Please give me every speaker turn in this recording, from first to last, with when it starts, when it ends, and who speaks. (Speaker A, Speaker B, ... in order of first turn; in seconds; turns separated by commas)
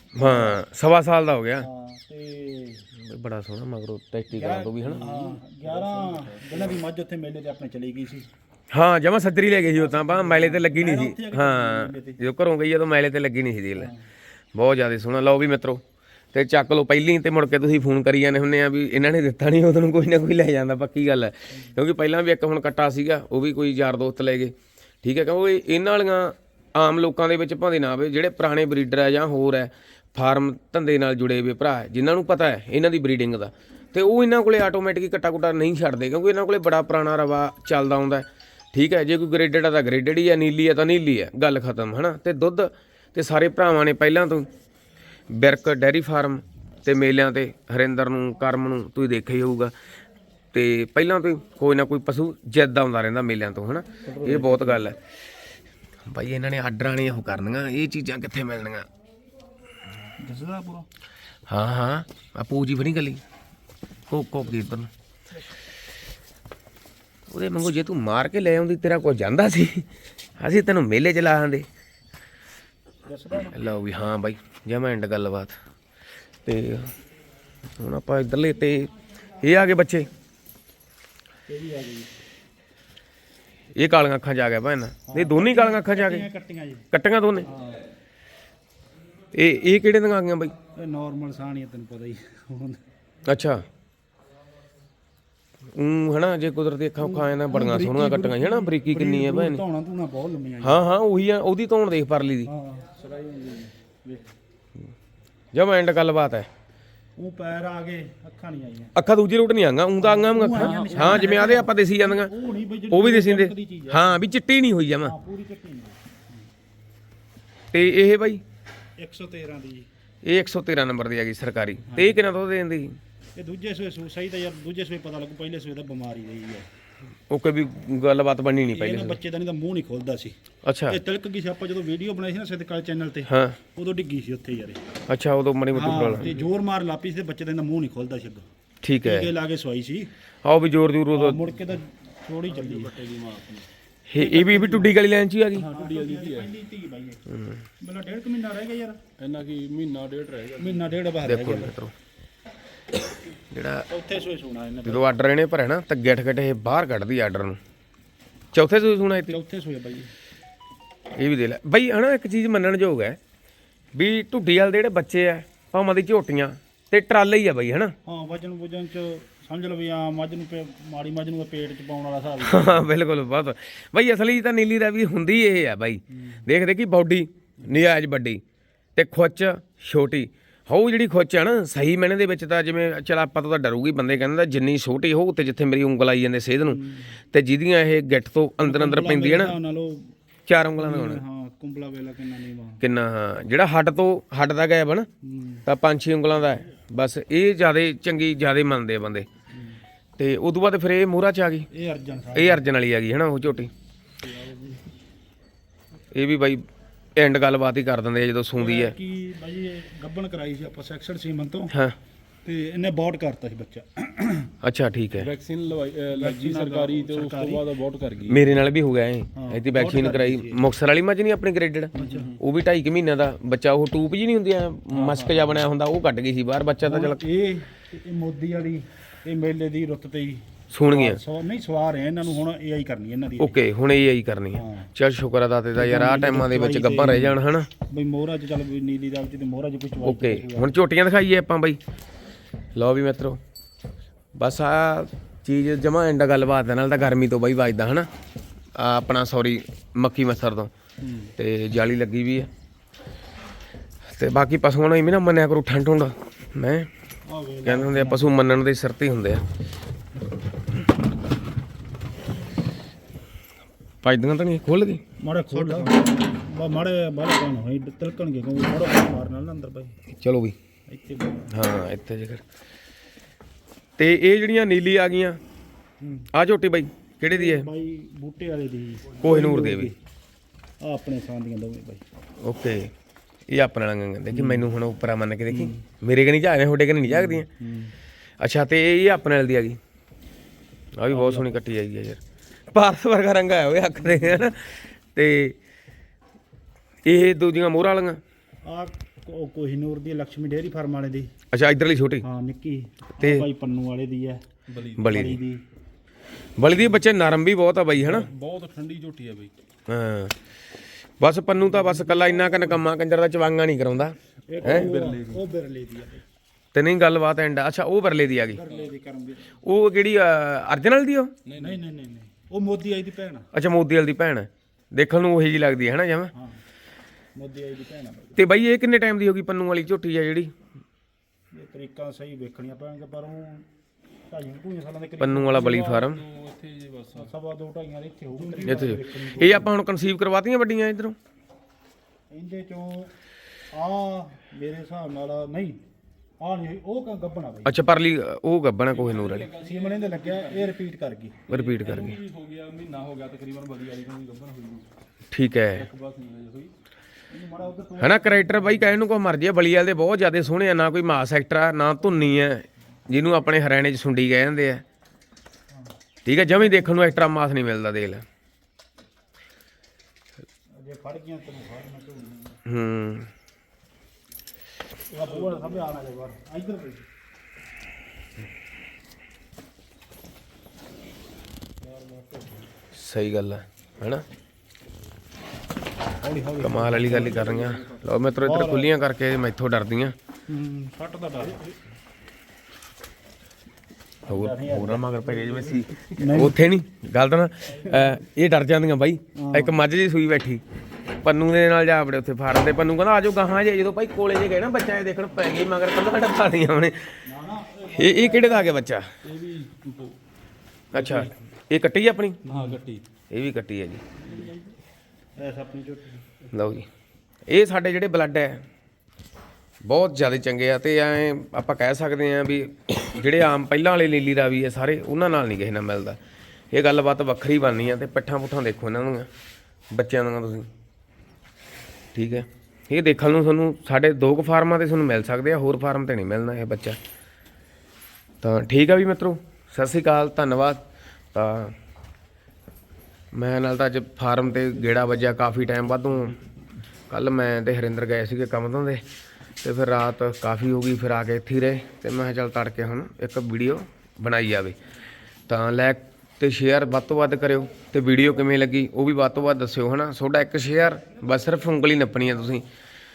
Speaker A: 0.1-1.7, Speaker B: 0.2-0.6, Speaker B: 1.6-2.9, Speaker A: 3.0-5.0, Speaker B: 4.3-8.3, Speaker C: 4.8-6.8, Speaker A: 8.7-13.9, Speaker B: 9.7-12.2, Speaker B: 13.8-14.0, Speaker A: 14.6-15.8, Speaker A: 16.3-44.5, Speaker A: 45.3-49.7, Speaker A: 50.5-55.0, Speaker B: 54.1-54.8, Speaker A: 56.1-58.9, Speaker B: 60.2-60.9, Speaker A: 61.5-63.2, Speaker A: 64.1-64.9, Speaker A: 67.3-71.7, Speaker B: 73.1-73.6, Speaker A: 73.5-75.5, Speaker A: 76.5-76.9, Speaker A: 77.8-80.1, Speaker B: 81.5-82.1, Speaker A: 83.8-86.2, Speaker B: 85.1-86.9, Speaker A: 86.9-87.5, Speaker B: 87.4-87.9, Speaker A: 89.3-90.5, Speaker B: 90.8-92.8, Speaker A: 93.3-93.6, Speaker A: 95.7-99.6, Speaker B: 97.0-100.8, Speaker A: 100.6-102.5, Speaker B: 102.5-104.2, Speaker A: 105.5-106.5, Speaker B: 107.2-108.9, Speaker A: 109.0-112.3, Speaker B: 110.0-114.2, Speaker C: 110.5-111.5, Speaker A: 112.9-115.1, Speaker B: 115.0-116.2, Speaker A: 117.7-118.4, Speaker B: 119.0-119.9, Speaker A: 120.2-123.0, Speaker B: 121.9-122.2, Speaker B: 123.4-126.7, Speaker A: 127.3-129.2, Speaker B: 128.7-130.4, Speaker A: 130.7-131.0, Speaker B: 130.9-134.8, Speaker A: 133.3-133.6, Speaker A: 135.1-136.3, Speaker B: 135.7-138.4, Speaker A: 138.8-139.3, Speaker B: 139.0-140.1, Speaker A: 140.4-141.5, Speaker B: 141.1-142.9, Speaker C: 142.5-143.7, Speaker A: 144.1-145.7, Speaker B: 144.2-144.9, Speaker B: 145.6-147.2, Speaker C: 145.7-146.5, Speaker A: 147.3-147.6, Speaker B: 147.8-149.0, Speaker C: 149.2-151.0, Speaker B: 150.6-151.8, Speaker A: 151.2-151.9, Speaker A: 153.5-153.9, Speaker B: 153.9-155.1, Speaker A: 154.8-157.6, Speaker A: 158.5-159.4, Speaker B: 159.3-160.1, Speaker A: 161.2-163.2, Speaker A: 163.9-167.9, Speaker B: 168.1-172.9, Speaker A: 172.4-178.4, Speaker A: 179.0-189.5, Speaker B: 186.7-187.1, Speaker B: 188.6-190.1, Speaker A: 190.5-191.2, Speaker B: 190.8-192.8, Speaker A: 192.8-195.1, Speaker B: 195.2-195.6, Speaker A: 195.7-199.3, Speaker B: 199.5-199.8, Speaker A: 200.2-201.7, Speaker B: 201.7-202.7, Speaker A: 202.3-203.7, Speaker B: 204.2-204.8, Speaker A: 206.1-206.6, Speaker A: 207.2-208.9, Speaker B: 208.6-211.7, Speaker A: 211.7-212.0, Speaker B: 212.4-214.5, Speaker A: 214.6-215.3, Speaker C: 215.2-218.5, Speaker B: 216.2-217.7, Speaker A: 218.3-227.2, Speaker B: 219.4-220.6, Speaker B: 221.9-222.3, Speaker C: 222.0-222.4, Speaker B: 224.9-225.6, Speaker B: 226.8-233.6, Speaker A: 230.7-231.2, Speaker A: 233.4-237.7, Speaker B: 234.5-234.9, Speaker B: 235.8-240.8, Speaker A: 240.0-241.8, Speaker A: 242.8-243.4, Speaker A: 244.4-248.1, Speaker A: 248.8-252.5, Speaker C: 251.0-251.3, Speaker A: 254.1-256.9, Speaker B: 257.3-258.3, Speaker A: 257.6-259.4, Speaker A: 264.0-265.0, Speaker B: 265.2-269.9, Speaker C: 265.5-265.9, Speaker A: 270.2-270.6, Speaker B: 270.9-271.5, Speaker A: 271.5-272.4, Speaker A: 274.0-275.4, Speaker B: 276.0-276.3, Speaker A: 276.3-277.7, Speaker B: 277.3-279.9, Speaker A: 279.2-279.9, Speaker B: 280.8-282.0, Speaker A: 282.4-282.9, Speaker A: 283.5-287.5, Speaker B: 284.3-284.7, Speaker B: 285.5-285.8, Speaker B: 287.2-287.9, Speaker A: 288.4-289.8, Speaker A: 291.0-292.2, Speaker B: 291.1-291.6, Speaker A: 292.7-295.6, Speaker B: 294.1-294.3, Speaker A: 297.1-298.2, Speaker B: 298.6-301.3, Speaker A: 301.5-302.2, Speaker B: 302.2-304.4, Speaker C: 304.7-305.1, Speaker A: 305.0-305.4, Speaker B: 305.0-305.6, Speaker A: 306.6-308.3, Speaker C: 307.9-309.5, Speaker A: 309.9-310.4, Speaker A: 311.2-314.9, Speaker B: 311.7-312.8, Speaker B: 314.5-316.2, Speaker C: 314.6-315.4, Speaker A: 316.7-318.6, Speaker B: 318.5-319.6, Speaker A: 319.6-321.3, Speaker C: 321.4-321.8, Speaker B: 321.6-323.5, Speaker A: 323.5-326.3, Speaker B: 326.3-326.6, Speaker B: 327.4-328.4, Speaker A: 328.4-330.5, Speaker B: 331.5-333.7, Speaker B: 334.3-336.1, Speaker A: 335.2-336.2, Speaker C: 335.6-337.3, Speaker B: 337.2-339.7, Speaker A: 338.6-341.2, Speaker B: 342.3-343.1, Speaker B: 343.7-345.8, Speaker B: 346.4-347.8, Speaker A: 347.7-349.5, Speaker C: 348.9-350.8, Speaker B: 349.6-352.0, Speaker C: 351.5-354.9, Speaker A: 351.5-352.1, Speaker A: 355.3-355.9, Speaker C: 355.7-356.7, Speaker B: 357.3-359.0, Speaker A: 358.0-364.8, Speaker A: 366.2-368.2, Speaker B: 370.8-372.6, Speaker A: 372.7-373.3, Speaker B: 375.1-377.1, Speaker B: 381.8-382.7, Speaker A: 382.9-384.2, Speaker B: 386.2-388.9, Speaker A: 386.6-390.1, Speaker B: 390.5-391.7, Speaker B: 394.3-396.6, Speaker A: 394.3-400.6, Speaker B: 397.8-398.1, Speaker B: 399.4-399.8, Speaker A: 401.2-407.2, Speaker B: 407.3-408.8, Speaker A: 408.0-409.1, Speaker C: 409.2-410.2, Speaker A: 410.9-412.4, Speaker C: 410.9-411.3, Speaker B: 412.4-412.8, Speaker C: 412.5-413.1, Speaker A: 413.3-414.0, Speaker B: 414.2-414.8, Speaker C: 414.2-414.5, Speaker B: 415.4-416.3, Speaker A: 416.5-416.9, Speaker A: 417.5-418.6, Speaker A: 419.9-426.2, Speaker A: 426.7-429.3, Speaker A: 429.9-430.7, Speaker A: 432.1-437.0, Speaker A: 438.4-441.8, Speaker A: 443.3-446.4, Speaker A: 447.1-449.0, Speaker A: 449.6-454.8, Speaker A: 455.5-462.7